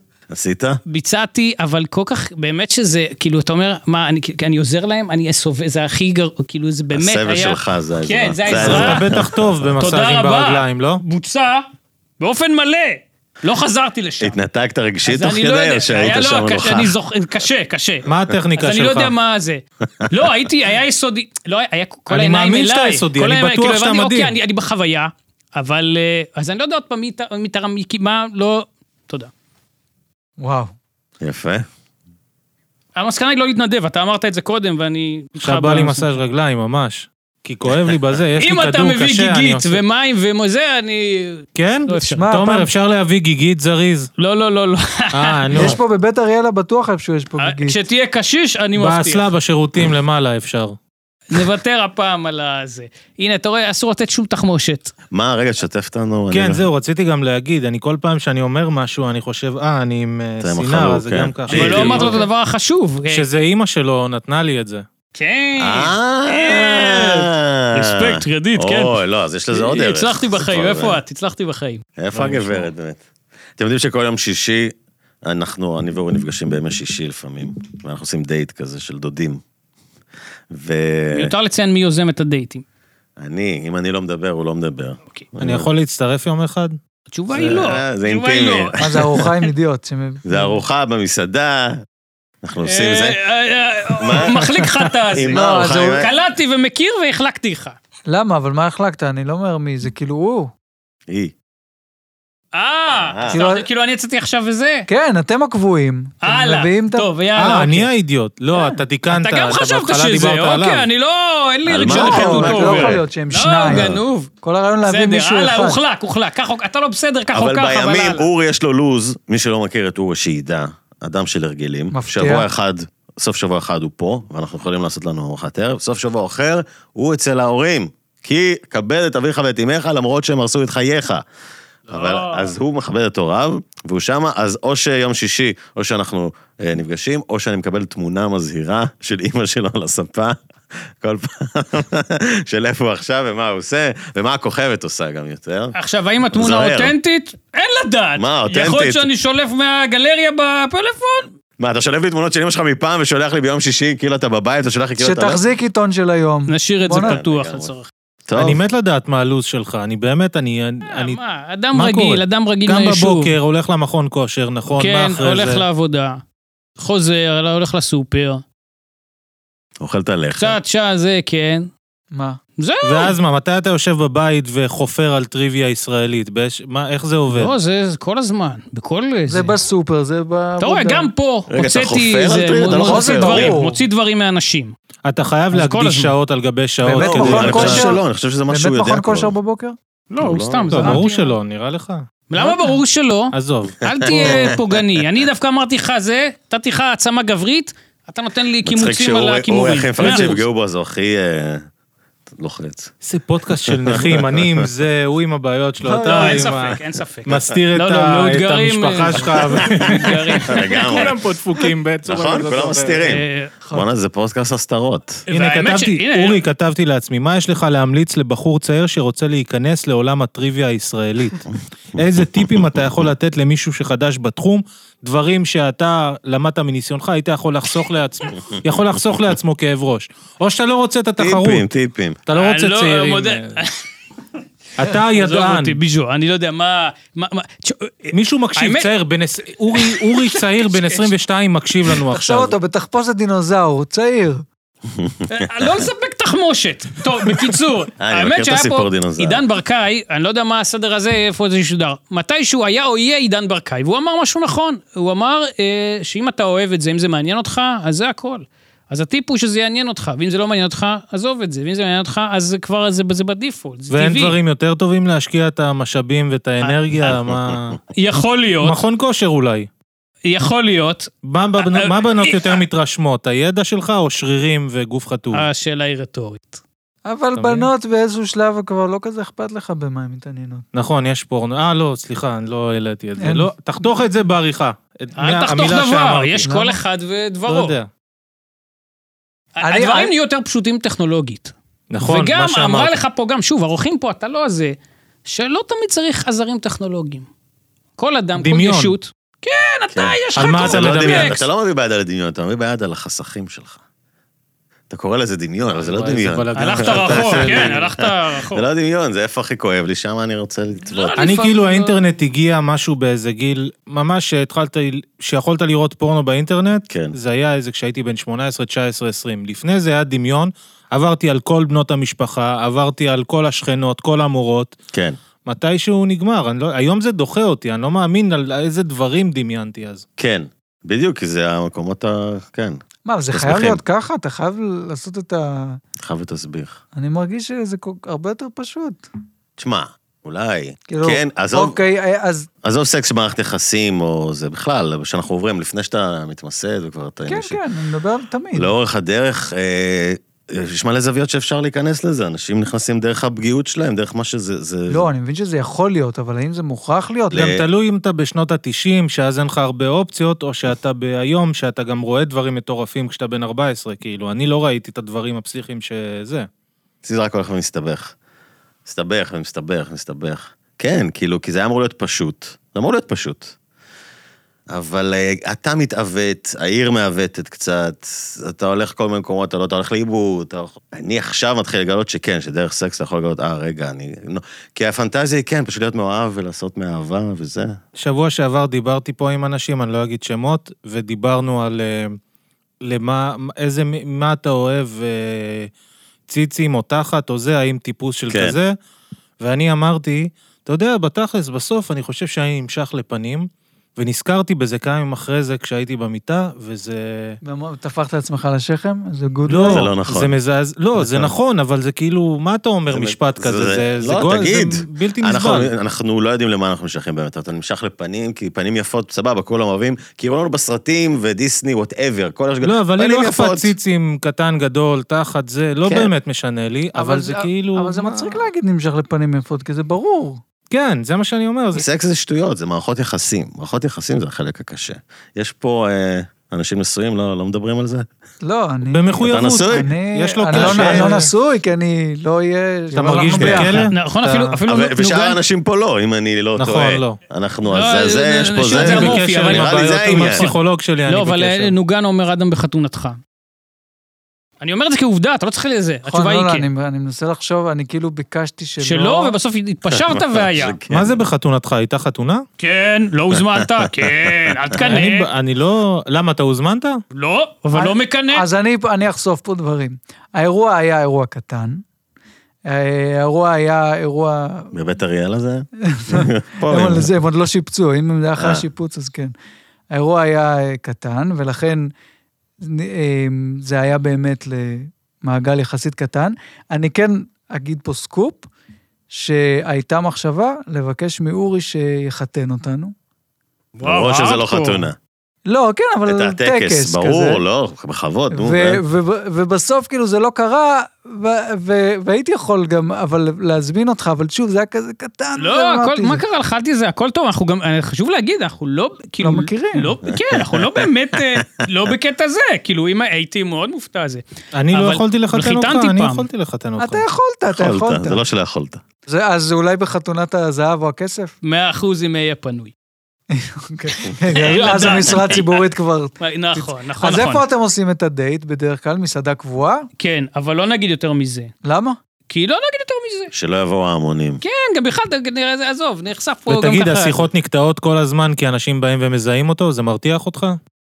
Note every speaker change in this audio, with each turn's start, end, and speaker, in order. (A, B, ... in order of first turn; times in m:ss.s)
0:00.3-0:00.8 A
0:00.9-0:09.1 B
0:06.9-0:09.3 A
0:08.5-0:11.0 C
0:09.8-0:11.7 B
0:12.2-0:14.4 B
0:14.2-0:16.9 A
0:15.0-0:29.3 B
0:18.1-0:19.1 C
0:22.1-0:24.4 C
0:30.4-0:30.7 D
0:31.2-0:31.7 A
0:33.0-0:36.1 B
0:35.4-0:39.8 C
0:38.4-0:42.2 B
0:41.6-0:44.1 C
0:42.2-0:42.7 D
0:44.2-0:45.5 B
0:45.1-0:45.8 C
0:45.5-0:47.8 D
0:47.4-0:49.3 B
0:48.8-0:50.8 C
0:51.3-0:54.9 B
0:55.1-0:56.6 A
0:56.3-1:02.2 C
1:00.4-1:02.2 A
1:01.5-1:03.3 B
1:03.1-1:04.9 C
1:05.2-1:09.0 B
1:05.6-1:11.0 A
1:09.5-1:11.8 B
1:12.0-1:13.0 A
1:12.1-1:12.7 C
1:13.6-1:19.4 A
1:20.5-1:21.3 A
1:21.1-1:22.6 B
1:23.2-1:25.7 A
1:25.4-1:26.8 C
1:27.1-1:28.8 B
1:27.3-1:29.2 A
1:28.8-1:30.6 D
1:30.2-1:31.8 A
1:32.4-1:33.2 A
1:32.6-1:37.8 B
1:34.0-1:36.1 A
1:35.3-1:36.0 D
1:38.1-1:40.5 D
1:41.1-1:41.3 A
1:42.5-1:44.9 B
1:43.0-1:43.4 A
1:43.3-1:43.7 D
1:44.9-1:47.1 D
1:46.2-1:47.9 B
1:47.4-1:50.9 C
1:48.6-1:54.3 B
1:51.7-1:53.0 A
1:51.9-1:55.8 D
1:53.7-1:54.0 A
1:54.9-1:58.3 B
1:57.3-2:11.2 A
2:01.9-2:02.5 D
2:11.9-2:25.8 A
2:11.9-2:12.5 B
2:25.8-2:31.3 B
2:26.3-2:27.0 A
2:28.2-2:29.1 A
2:31.6-2:35.4 A
2:35.0-2:37.2 D
2:36.5-2:37.9 B
2:36.9-2:37.7 A
2:38.3-2:38.6 A
2:38.4-2:41.2 C
2:40.9-2:43.3 B
2:41.7-2:45.6 C
2:44.7-2:46.2 B
2:46.8-2:48.4 B
2:49.8-2:50.6 A
2:50.4-2:51.7 B
2:52.1-2:52.4 D
2:52.6-2:53.2 B
2:52.8-2:57.5 C
2:57.3-2:59.6 B
2:59.3-3:01.1 D
3:00.6-3:04.7 B
3:01.5-3:03.6 A
3:02.8-3:03.8 D
3:05.0-3:07.9 C
3:05.5-3:06.1 B
3:06.8-3:09.8 D
3:07.0-3:09.3 A
3:10.1-3:11.3 B
3:10.2-3:10.9 A
3:10.7-3:12.1 C
3:12.3-3:20.4 B
3:12.4-3:12.8 D
3:13.3-3:14.4 C
3:13.9-3:14.8 A
3:18.6-3:21.7 A
3:20.0-3:20.3 C
3:22.3-3:22.9 A
3:23.0-3:33.1 C
3:23.6-3:24.7 A
3:26.0-3:31.1 B
3:26.1-3:26.4 A
3:29.6-3:31.2 A
3:32.0-3:35.2 A
3:33.0-3:33.5 B
3:35.3-3:36.4 B
3:35.3-3:41.4 C
3:42.0-3:51.6 C
3:42.0-3:42.8 A
3:51.2-3:52.2 A
3:52.3-3:53.6 C
3:52.3-3:53.8 B
3:54.8-3:55.8 C
3:55.0-3:58.9 B
3:58.1-4:02.5 C
3:59.7-4:01.1 B
4:02.1-4:04.4 D
4:04.9-4:05.8 A
4:05.3-4:24.4 B
4:08.0-4:09.4 A
4:23.9-4:27.8 C
4:26.6-4:27.1 B
4:27.3-4:27.6 A
4:27.9-4:28.8 B
4:28.6-4:29.7 C
4:30.3-4:32.6 B
4:31.2-4:35.4 C
4:35.3-4:36.6 B
4:37.1-4:40.6 D
4:37.4-4:37.7 C
4:40.7-4:46.5 C
4:43.2-4:43.9 D
4:45.2-4:47.8 B
4:46.4-4:46.8 D
4:47.5-4:47.9 C
4:49.6-4:51.5 B
4:49.6-4:50.1 D
4:51.9-4:53.0 C
4:52.0-4:54.7 B
4:55.3-4:57.3 B
4:58.0-5:01.4 B
4:58.4-4:58.9 C
4:59.9-5:03.8 A
5:00.4-5:01.4 C
5:04.9-5:11.2 A
5:05.8-5:07.8 C
5:06.6-5:08.6 B
5:10.9-5:12.0 B
5:11.2-5:24.8 C
5:16.9-5:17.2 A
5:24.9-5:25.2 A
5:25.4-5:30.0 C
5:30.2-5:32.8 A
5:33.1-5:35.8 D
5:33.3-5:33.8 A
5:36.0-5:36.8 A
5:37.0-5:39.0 D
5:39.6-5:41.8 A
5:40.9-5:42.5 D
5:42.6-5:47.6 A
5:47.3-5:48.7 D
5:48.5-5:55.1 A
5:54.9-5:57.6 D
5:57.3-5:57.6 A
5:57.3-6:06.5 C
6:07.0-6:08.2 A
6:08.8-6:13.6 A
6:14.7-6:27.8 A
6:28.0-6:32.2 C
6:32.8-6:35.7 C
6:36.3-6:38.8 C
6:38.3-6:38.6 A
6:39.4-6:47.4 C
6:47.4-6:49.9 D
6:49.5-6:55.7 C
6:49.7-6:50.4 A
6:51.0-6:51.3 A
6:52.9-7:03.7 A
7:02.6-7:08.4 C
7:05.8-7:06.1 A
7:07.0-7:10.4 D
7:10.7-7:11.8 C
7:11.7-7:18.1 A
7:18.4-7:24.6 D
7:18.9-7:21.3 C
7:19.2-7:19.9 A
7:20.5-7:21.1 A
7:22.9-7:24.0 C
7:23.3-7:23.8 A
7:23.9-7:25.4 B
7:24.7-7:30.5 A
7:26.6-7:27.2 C
7:27.7-7:33.2 B
7:28.8-7:31.7 C
7:34.6-7:36.7 B
7:36.1-7:39.4 D
7:38.8-7:40.8 B
7:39.9-7:41.2 A
7:40.9-7:42.4 C
7:42.6-7:45.3 B
7:43.4-7:45.0 A
7:44.8-7:47.0 C
7:47.1-7:48.4 B
7:47.7-7:51.8 D
7:52.7-7:54.7 D
7:54.7-7:57.1 A
7:55.9-7:59.3 D
7:58.4-7:58.6 A
7:59.9-8:01.9 D
8:02.6-8:08.5 D
8:09.1-8:12.9 D
8:13.8-8:15.0 A
8:13.8-8:14.9 B
8:15.5-8:17.4 D
8:16.1-8:18.8 A
8:18.3-8:26.2 D
8:25.4-8:36.3 B
8:29.2-8:29.9 D
8:30.1-8:31.6 A
8:34.6-8:37.0 C
8:36.8-8:38.2 D
8:37.5-8:38.8 A
8:39.1-8:41.3 D
8:41.4-8:42.7 B
8:43.3-8:49.9 D
8:44.0-8:45.7 B
8:44.6-8:45.0 C
8:46.2-8:47.4 B
8:50.0-8:51.5 B
8:51.6-8:52.0 D
8:52.3-8:53.3 B
8:53.3-8:54.4 A
8:54.4-8:57.2 B
8:56.5-9:00.6 C